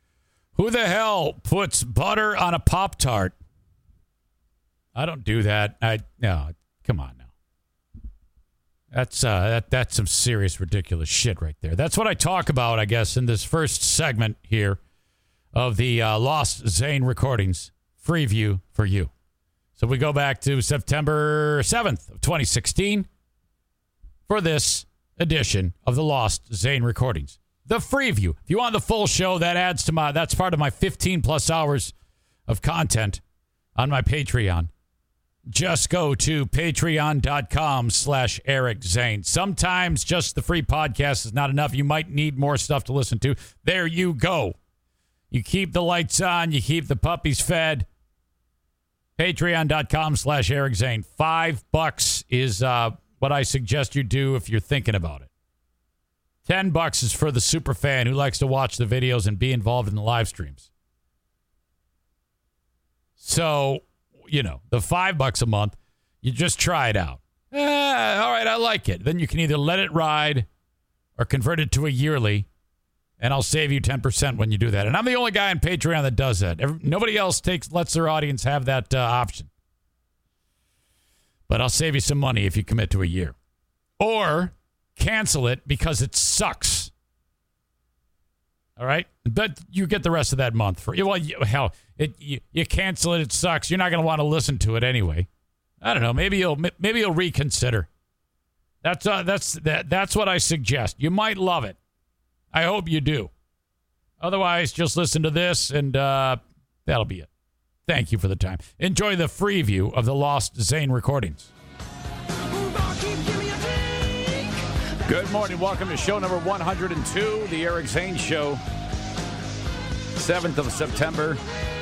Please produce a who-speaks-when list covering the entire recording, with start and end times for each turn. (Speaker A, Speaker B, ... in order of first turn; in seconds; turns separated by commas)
Speaker A: 0.6-3.3, Speaker A: 5.0-7.2, Speaker A: 8.9-14.8, Speaker A: 15.5-19.1, Speaker A: 19.8-23.1, Speaker A: 24.3-31.9, Speaker A: 32.5-33.2, Speaker A: 33.8-34.7, Speaker A: 35.5-44.5, Speaker A: 45.3-47.9, Speaker A: 49.2-55.3, Speaker A: 56.4-60.6, Speaker A: 63.2-70.5, Speaker A: 71.2-72.5, Speaker A: 73.2-79.5, Speaker A: 81.5-83.3, Speaker A: 84.0-86.9, Speaker A: 88.8-95.3, Speaker A: 95.8-97.9, Speaker A: 98.8-101.8, Speaker A: 102.5-103.3, Speaker A: 104.2-107.3, Speaker A: 107.9-111.5, Speaker A: 115.0-118.6, Speaker A: 120.2-121.4